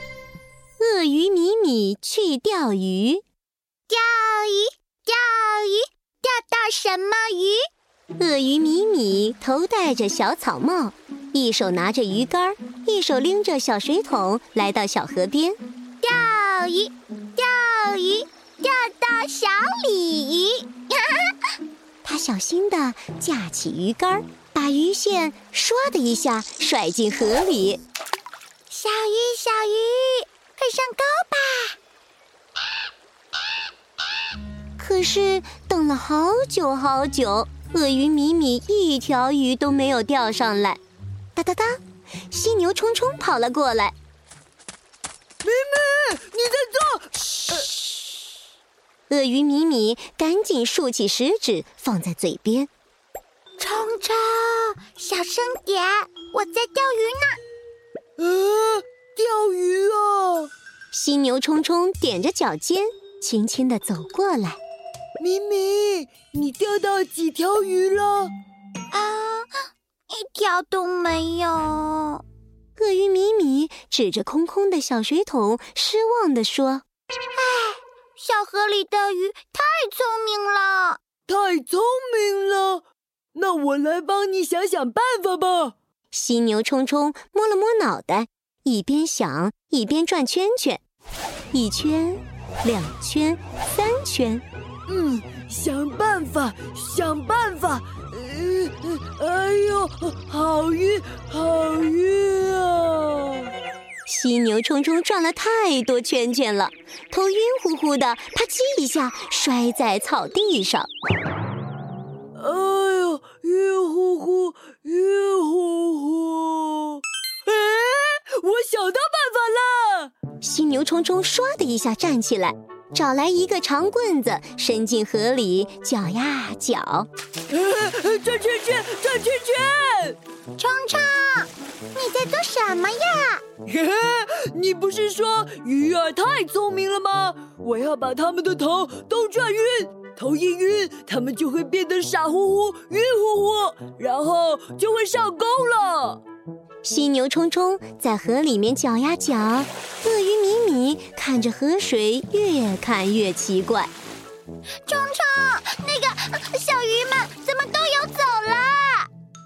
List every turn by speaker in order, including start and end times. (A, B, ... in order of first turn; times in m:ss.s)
0:00.8-0:03.2 A
0:03.9-0:07.6 B
0:08.2-0:15.6 A
0:16.0-0:21.3 B
0:22.0-0:27.8 A
0:28.7-0:31.8 B
0:34.8-0:40.8 A
0:41.4-0:43.9 A
0:45.4-0:47.7 C
0:49.1-0:52.7 A
0:53.6-0:57.4 B
0:58.2-1:00.5 C
1:00.9-1:04.6 A
1:05.2-1:08.3 C
1:08.9-1:09.5 B
1:10.1-1:12.2 B
1:12.8-1:16.8 A
1:17.3-1:21.0 B
1:21.3-1:22.8 C
1:23.3-1:25.7 C
1:26.1-1:30.8 A
1:31.5-1:34.4 A
1:34.9-1:43.5 C
1:44.1-1:50.9 A
1:52.3-2:00.1 C
2:00.4-2:07.1 A
2:07.5-2:10.2 C
2:10.6-2:13.4 B
2:13.6-2:26.2 C
2:26.8-2:33.9 A
2:34.8-2:39.1 B